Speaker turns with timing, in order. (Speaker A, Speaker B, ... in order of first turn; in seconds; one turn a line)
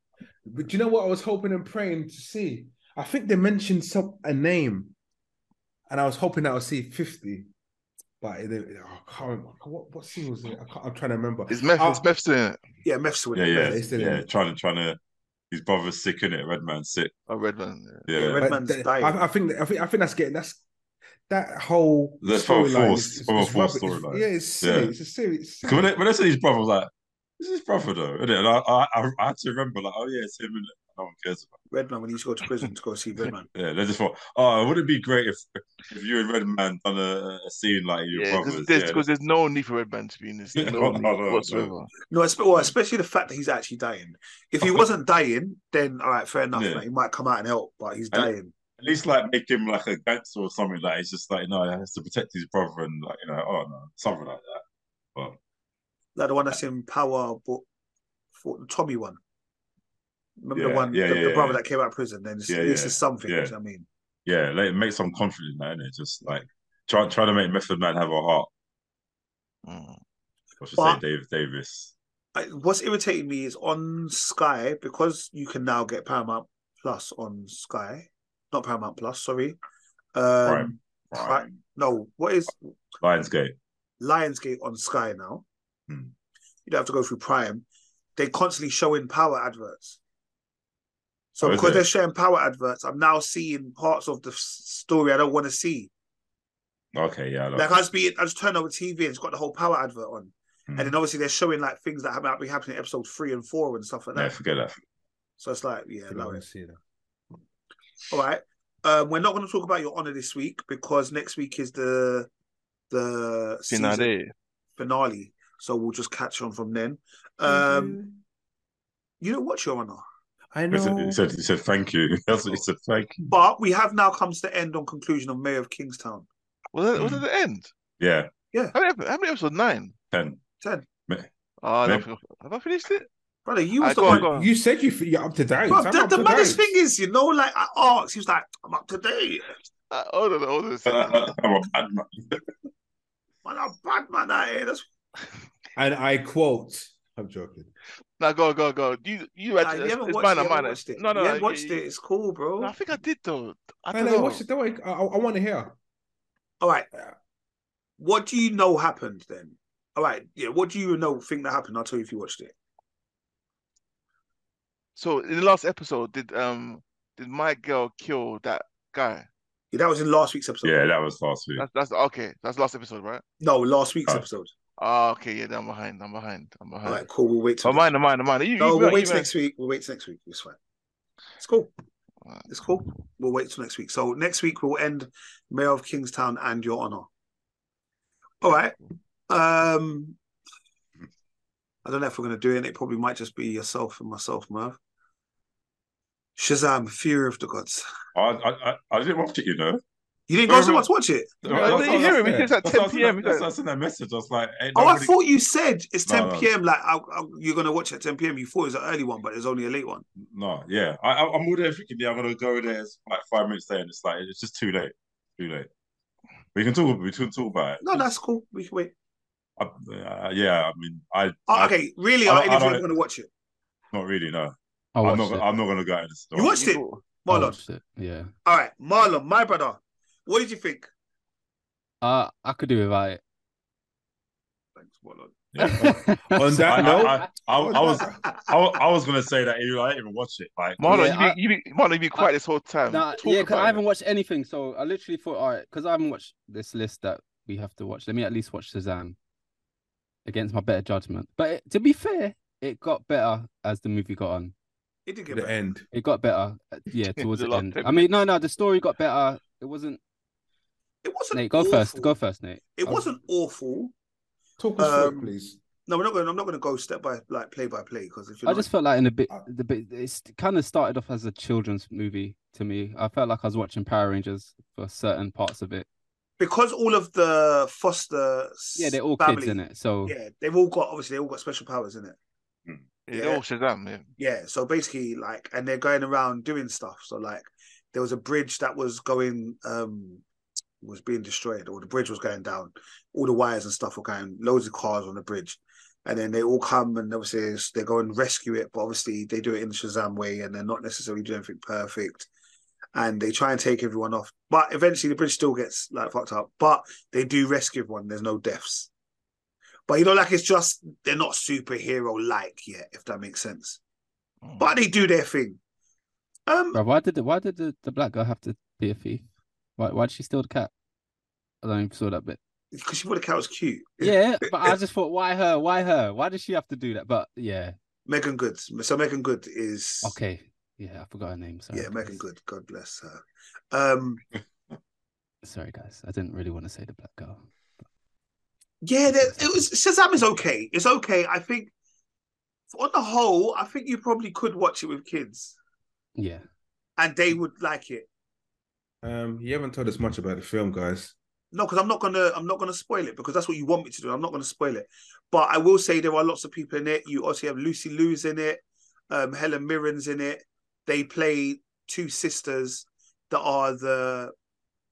Speaker A: 0.5-4.9
Speaker A: 5.9-7.5
Speaker A: 8.2-12.1
Speaker B: 11.5-12.6
Speaker C: 12.8-13.8
Speaker D: 13.3-15.0
Speaker A: 13.5-14.2
Speaker D: 15.5-17.1
Speaker B: 17.3-18.1
Speaker D: 18.1-18.5
Speaker C: 18.1-19.2
Speaker A: 18.4-20.6
Speaker A: 21.3-25.9
Speaker D: 22.2-24.9
Speaker D: 25.6-31.6
Speaker C: 31.7-33.5
Speaker D: 33.5-39.0
Speaker B: 38.1-41.9
Speaker D: 40.5-41.7
Speaker C: 42.1-48.5
Speaker D: 46.5-46.9
Speaker D: 48.1-54.6
Speaker C: 56.1-57.6
Speaker C: 58.4-59.2
Speaker C: 60.4-63.9
Speaker D: 60.5-61.6
Speaker D: 62.5-63.5
Speaker D: 64.2-68.5
Speaker B: 69.6-70.0
Speaker D: 70.6-71.9
Speaker C: 72.3-79.5
Speaker C: 80.1-82.6
Speaker D: 80.4-81.6
Speaker D: 83.0-83.5
Speaker C: 84.0-85.4
Speaker C: 86.7-87.6
Speaker C: 88.2-90.0
Speaker C: 91.3-95.9
Speaker D: 91.4-91.9
Speaker D: 96.9-97.8
Speaker C: 97.5-104.4
Speaker D: 100.7-100.9
Speaker D: 104.1-104.8
Speaker C: 105.4-106.4
Speaker A: 106.1-106.8
Speaker C: 108.1-112.3
Speaker C: 112.9-114.1
Speaker B: 113.7-114.3
Speaker C: 114.8-118.0
Speaker A: 117.4-118.2
Speaker C: 119.2-120.0
Speaker A: 120.5-121.2
Speaker D: 120.7-123.3
Speaker C: 123.3-126.3
Speaker B: 126.7-127.7
Speaker D: 126.9-127.2
Speaker D: 128.0-128.3
Speaker B: 128.7-129.9
Speaker D: 130.1-130.4
Speaker C: 130.6-130.9
Speaker B: 131.6-133.1
Speaker C: 133.4-134.3
Speaker B: 133.8-134.5
Speaker A: 134.1-136.7
Speaker C: 135.7-139.5
Speaker B: 139.9-141.3
Speaker D: 140.8-142.4
Speaker C: 143.4-144.8
Speaker A: 145.8-147.7
Speaker B: 148.2-151.8
Speaker C: 149.6-152.7
Speaker B: 152.6-154.4
Speaker A: 153.9-155.8
Speaker C: 156.6-156.9
Speaker C: 158.0-162.5
Speaker B: 164.9-169.3
Speaker C: 169.7-170.8
Speaker D: 170.6-171.6
Speaker B: 171.6-173.2
Speaker C: 173.4-174.5
Speaker B: 174.8-177.1
Speaker C: 176.8-177.9
Speaker B: 177.6-179.3
Speaker C: 178.6-180.6
Speaker C: 181.4-181.7
Speaker C: 182.5-187.1
Speaker C: 188.4-188.8
Speaker C: 189.3-190.2
Speaker C: 191.8-194.8
Speaker C: 196.4-197.8
Speaker D: 198.1-199.8
Speaker C: 200.3-201.9
Speaker D: 200.5-200.9
Speaker D: 201.4-205.1
Speaker B: 201.5-203.5
Speaker C: 204.7-210.1
Speaker D: 206.1-206.5
Speaker D: 210.2-215.7
Speaker D: 216.6-218.1
Speaker C: 217.8-218.9
Speaker D: 219.6-222.9
Speaker C: 221.5-223.3
Speaker D: 223.9-226.6
Speaker E: 224.9-225.4
Speaker C: 226.3-227.6
Speaker B: 226.5-227.0
Speaker E: 227.3-228.3
Speaker C: 228.4-230.9
Speaker E: 232.0-233.2
Speaker C: 234.8-235.4
Speaker D: 235.5-241.1
Speaker E: 235.6-237.3
Speaker A: 236.3-238.1
Speaker C: 238.0-238.6
Speaker B: 240.8-243.8
Speaker E: 240.9-241.4
Speaker E: 242.9-249.2
Speaker E: 250.2-254.5
Speaker C: 255.1-255.6
Speaker A: 255.3-255.8
Speaker E: 255.9-260.0
Speaker B: 257.2-258.1
Speaker C: 261.0-262.1
Speaker E: 261.3-263.1
Speaker C: 262.8-263.9
Speaker A: 264.6-265.6
Speaker C: 264.8-265.3
Speaker C: 265.9-268.7
Speaker E: 268.4-275.9
Speaker C: 276.4-282.2
Speaker E: 278.8-280.1
Speaker B: 283.1-284.1
Speaker C: 283.1-283.4
Speaker C: 284.2-290.2
Speaker C: 290.8-302.3
Speaker C: 302.9-308.9
Speaker C: 309.9-313.8
Speaker B: 314.4-314.7
Speaker C: 314.6-315.6
Speaker C: 316.5-316.8
Speaker E: 316.7-319.3
Speaker E: 319.8-320.7
Speaker E: 321.6-322.4
Speaker C: 322.7-324.7
Speaker E: 324.0-327.7
Speaker C: 328.1-330.2
Speaker E: 330.0-332.2
Speaker C: 331.7-333.2
Speaker C: 333.7-334.2
Speaker E: 335.4-337.4
Speaker C: 338.8-341.7
Speaker E: 339.1-339.7
Speaker C: 342.7-345.6
Speaker E: 346.1-346.4
Speaker C: 347.0-348.1
Speaker A: 349.0-351.1
Speaker C: 351.5-364.3